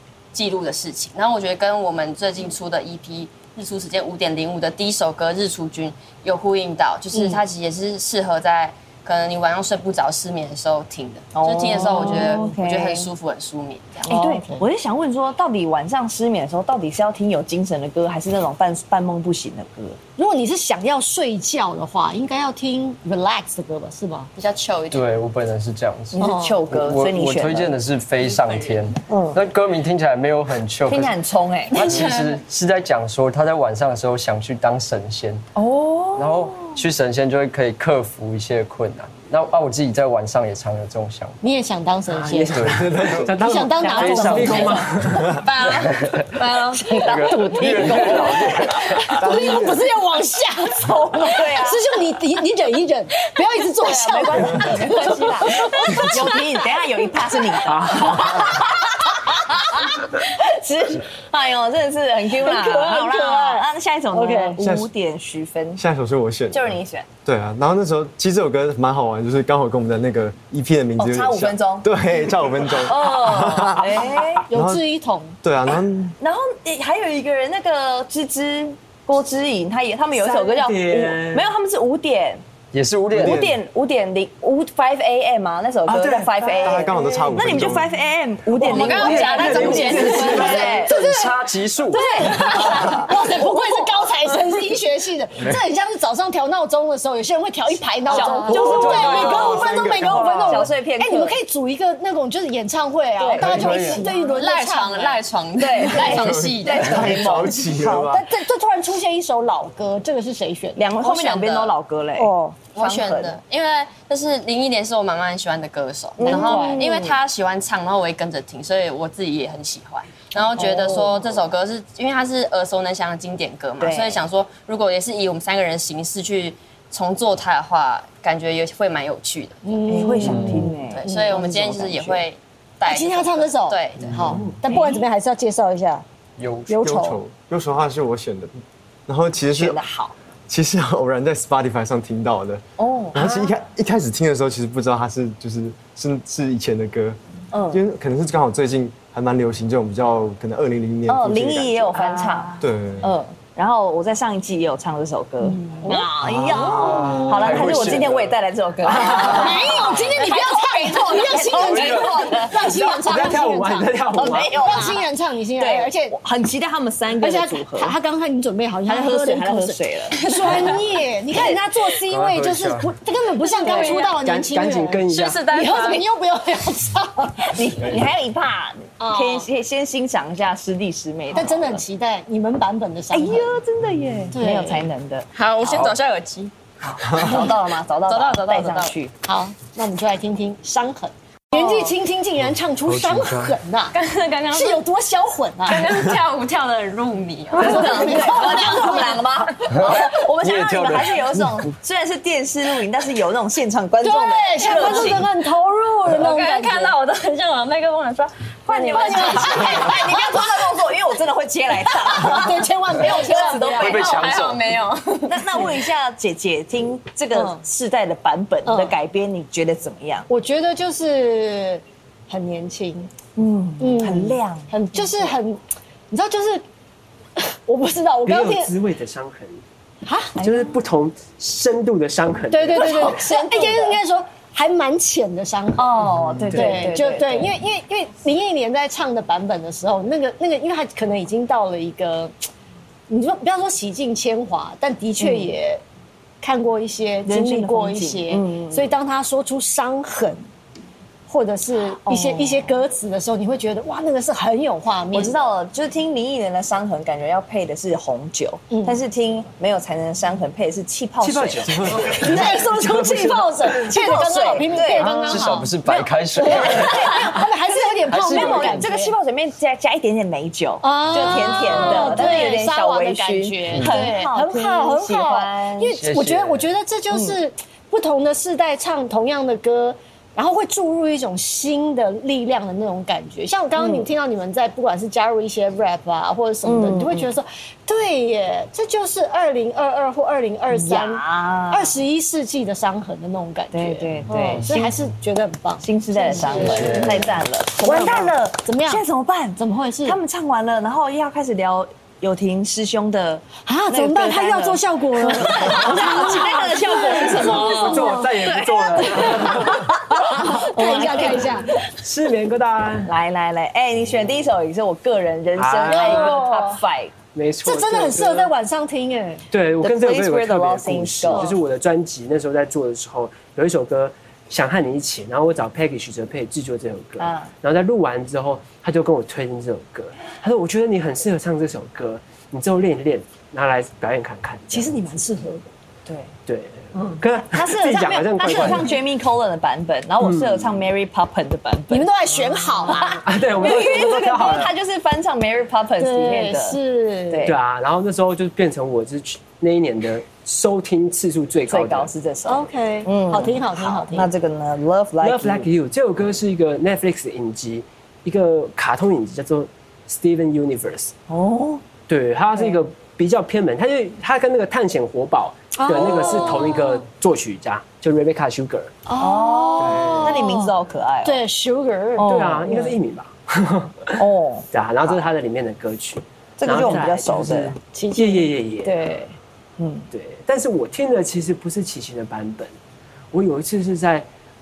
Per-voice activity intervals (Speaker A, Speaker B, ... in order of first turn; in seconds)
Speaker A: 0.3-14.1, 24.4-25.2, 31.7-32.4, 45.4-45.9, 88.7-90.7, 103.8-107.5, 111.0-111.8, 112.7-130.0, 130.8-134.3, 173.4-174.2, 175.1-176.1, 185.3-186.5, 188.1-188.9, 193.9-194.8, 195.7-198.5, 206.1-210.1, 213.9-215.6
Speaker B: 11.3-13.1, 14.1-20.0, 26.1-27.8, 30.9-32.1, 35.6-36.8, 43.8-44.9, 46.4-48.3, 51.0-51.8, 53.8-65.8, 66.5-67.1, 71.0-71.9, 72.6-74.5, 76.2-82.4, 83.1-90.9, 92.3-93.1, 98.1-101.4, 103.2-104.0, 105.6-108.1, 110.8-113.4, 116.2-117.2, 120.5-121.2, 123.8-124.2, 129.9-132.2, 134.7-135.0, 139.5-140.1, 142.8-143.5, 147.5-147.8, 151.1-162.9, 164.1-168.0, 168.9-170.8, 177.4-181.8, 183.1-185.3, 186.8-189.1, 197.6-205.3, 208.7-214.4, 215.3-220.3, 223.4-225.3, 230.4-230.7, 232.8-234.0, 235.8-237.6, 245.2-245.5, 247.3-248.9, 252.0-252.8, 255.1-262.6, 263.7-265.3, 266.5-275.9, 277.1-277.4, 283.8-284.1, 286.6-287.3, 290.7-292.0, 293.7-294.9, 295.8-311.6, 313.1-317.1, 319.8-321.6, 327.2-327.5, 336.1-336.3, 337.5-347.6, 351.7-355.7, 361.3-361.8, 365.9-366.5, 369.2-371.4, 372.2-373.0, 374.2-375.2, 376.6-377.8, 378.9-379.2, 379.8-380.1
Speaker C: 11.8-12.5, 14.1-14.7, 20.2-24.3, 26.2-26.6, 41.4-42.6, 43.4-45.3, 46.8-56.4, 62.4-64.6, 74.5-75.4, 89.1-105.2, 105.8-106.0, 107.8-110.9, 112.2-112.6, 116.2-116.9, 129.6-131.4, 132.8-136.0, 136.7-137.2, 155.5-157.2, 159.0-164.0, 164.5-166.2, 167.2-177.6, 179.0-179.5, 181.3-183.6, 184.3-184.9, 189.2-194.0, 194.5-195.9, 197.6-199.2, 204.0-206.9, 208.7-210.4, 212.1-214.2, 217.3-217.6, 218.7-218.9, 220.3-223.1, 223.8-225.6, 226.1-226.6, 227.4-228.7, 230.1-230.4, 232.5-242.3, 243.1-245.8, 246.4-250.4, 251.3-255.4, 258.7-259.0, 261.9-269.1, 270.8-299.0, 299.6-300.2, 303.6-311.8, 315.9-316.8, 317.6-319.4, 334.7-335.7, 338.5-338.8, 341.9-343.2, 346.0-347.5, 352.5-354.3, 365.8-367.0, 369.1-370.7, 371.2-372.9, 377.9-379.2
Speaker D: 24.9-31.2, 31.7-35.4, 36.2-41.4, 42.5-43.3, 43.8-45.3, 45.8-49.2, 82.7-83.4, 90.7-93.1, 98.4-99.7, 103.3-104.0, 130.2-130.7, 136.4-136.9, 156.3-158.4, 161.5-162.3, 172.1-172.9, 192.9-193.6, 199.7-201.7, 213.8-214.6, 265.0-267.2, 268.1-268.9, 276.0-276.7, 296.6-297.2
Speaker E: 42.1-45.4, 57.6-58.7, 80.2-81.5, 85.9-87.3, 88.5-90.8, 158.9-159.6, 162.6-164.7, 173.7-175.4, 228.2-229.6, 230.4-233.2, 236.4-236.8, 261.2-263.8, 265.0-265.5, 271.6-272.0, 307.1-313.1, 315.6-316.5, 317.3-318.5, 319.5-334.9, 336.5-339.0, 340.2-340.7, 343.2-344.7, 347.5-352.1, 355.2-361.1, 362.1-369.0, 369.8-370.5, 372.2-379.1, 380.1-382.8, 383.3-384.3
Speaker F: 42.7-43.3, 49.1-49.8, 64.6-64.9, 65.8-74.8, 75.4-76.2, 83.1-83.6, 86.6-87.9, 98.5-100.6, 106.1-108.3, 136.8-139.8, 140.5-142.6, 143.1-147.2, 147.7-153.1, 156.3-157.1, 187.1-187.4